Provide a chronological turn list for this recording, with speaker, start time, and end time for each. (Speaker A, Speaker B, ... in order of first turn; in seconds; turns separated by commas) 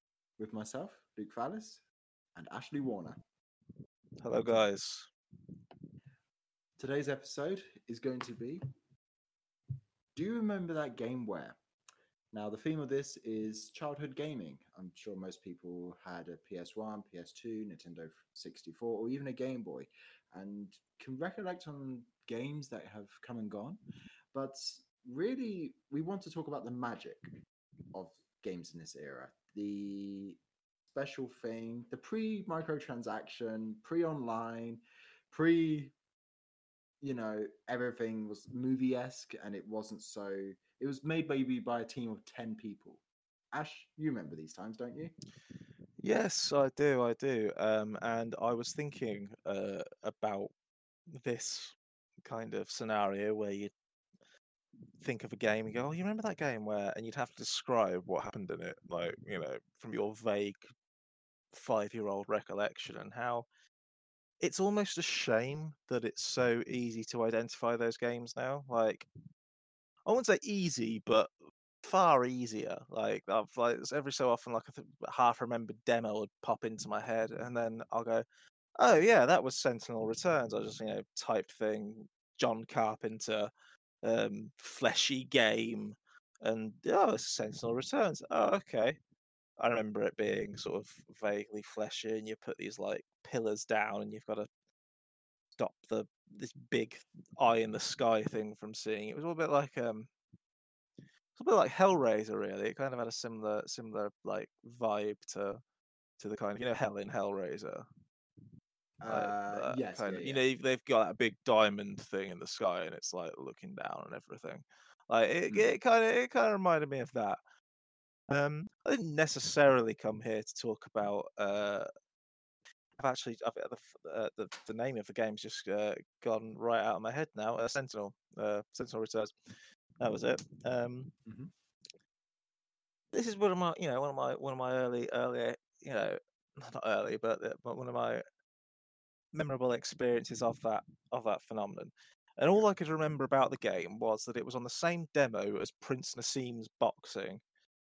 Speaker A: 0.4-1.8, Speaker A: 2.4-3.2, Speaker B: 4.2-5.1, Speaker A: 6.8-8.6, Speaker A: 10.2-11.6, Speaker A: 12.3-23.8, Speaker A: 24.3-27.3, Speaker A: 27.9-35.9, Speaker A: 37.0-45.1, Speaker B: 46.0-50.5, Speaker B: 51.1-53.7, Speaker B: 55.0-60.7, Speaker B: 61.5-63.5, Speaker B: 64.4-69.1, Speaker B: 70.1-78.2, Speaker B: 78.8-83.5, Speaker B: 84.0-89.0, Speaker B: 89.6-94.5, Speaker B: 95.6-100.1, Speaker B: 101.4-105.6, Speaker B: 106.2-107.8, Speaker A: 109.0-110.4, Speaker B: 109.1-117.4, Speaker B: 118.3-121.9, Speaker B: 123.0-131.1, Speaker A: 131.2-131.5, Speaker B: 133.1-138.2, Speaker B: 139.3-147.4